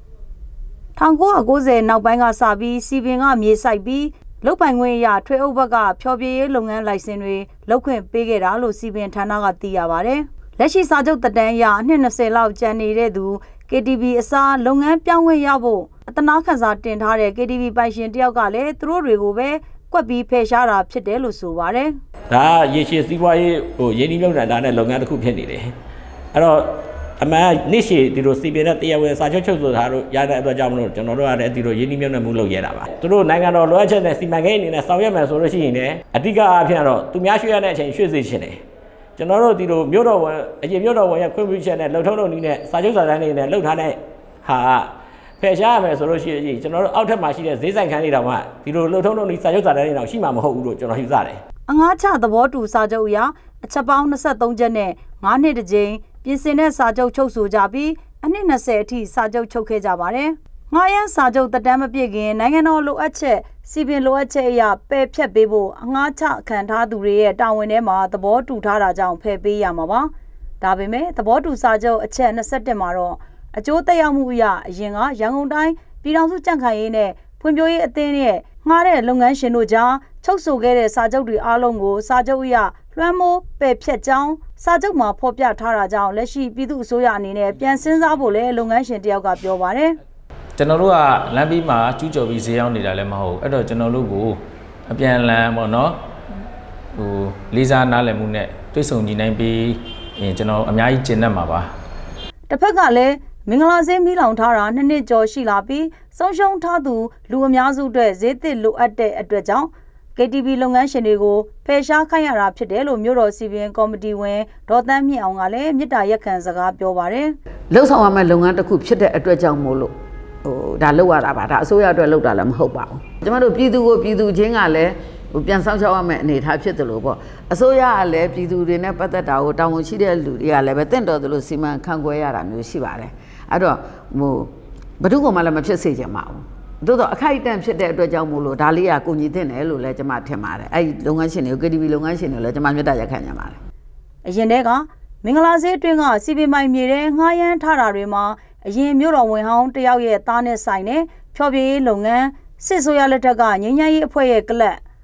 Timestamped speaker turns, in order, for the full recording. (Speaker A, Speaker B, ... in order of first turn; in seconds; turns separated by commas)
Speaker A: 1.0-22.0, Speaker B: 22.3-25.7, Speaker B: 26.3-38.6, Speaker B: 39.2-51.4, Speaker A: 51.7-90.0, Speaker C: 90.6-96.0, Speaker C: 97.0-101.7, Speaker A: 102.5-117.3, Speaker D: 117.7-143.6, Speaker A: 144.2-154.8